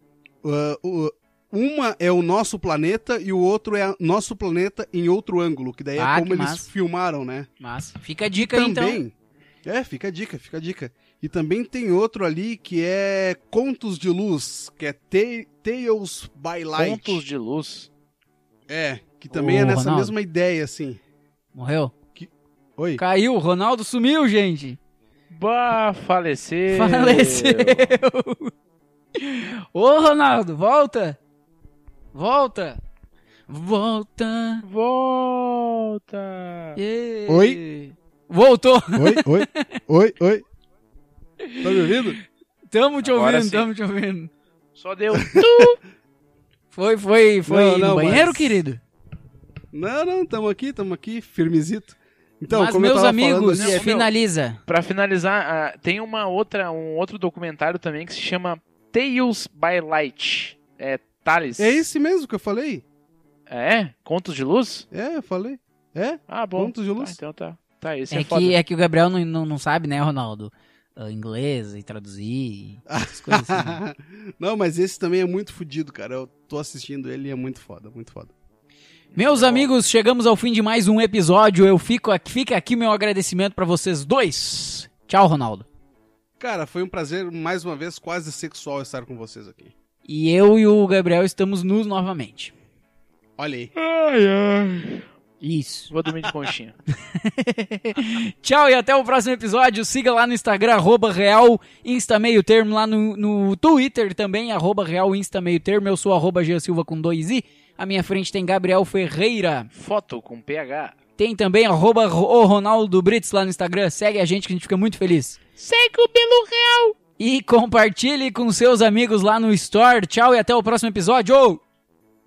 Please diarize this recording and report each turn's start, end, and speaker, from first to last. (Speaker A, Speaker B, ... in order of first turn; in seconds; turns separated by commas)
Speaker A: 0.4-7.5, Speaker B: 6.0-6.7, Speaker B: 7.6-9.0, Speaker A: 8.4-9.1, Speaker A: 9.6-17.2, Speaker C: 16.7-17.9, Speaker A: 18.7-21.0, Speaker B: 19.3-20.1, Speaker B: 21.5-21.9, Speaker A: 22.1-23.0, Speaker B: 23.0-24.8, Speaker C: 25.3-28.0, Speaker B: 26.7-28.5, Speaker B: 29.1-31.2, Speaker B: 32.1-32.8, Speaker B: 33.5-34.6, Speaker C: 34.6-36.8, Speaker B: 36.8-39.4, Speaker A: 37.3-37.6, Speaker A: 39.0-40.4, Speaker B: 41.4-42.1, Speaker A: 41.6-42.2, Speaker B: 42.7-44.3, Speaker C: 43.0-43.7, Speaker C: 44.7-45.8, Speaker A: 45.3-45.6, Speaker B: 46.7-48.8, Speaker A: 47.5-48.6, Speaker A: 49.7-53.8, Speaker B: 52.5-54.6, Speaker C: 53.5-54.1, Speaker C: 54.6-61.8, Speaker A: 61.6-62.8, Speaker C: 63.5-64.8, Speaker A: 64.9-67.2, Speaker C: 66.3-68.6, Speaker B: 68.1-73.8, Speaker A: 72.9-78.3, Speaker C: 79.1-79.7, Speaker B: 79.2-85.7, Speaker A: 86.4-89.7, Speaker B: 90.0-92.5, Speaker A: 93.4-93.7, Speaker C: 93.8-95.1, Speaker B: 95.4-95.9, Speaker C: 95.9-96.8, Speaker B: 96.9-109.7, Speaker C: 109.7-110.9, Speaker B: 111.2-115.4, Speaker C: 115.6-117.0, Speaker B: 117.2-121.6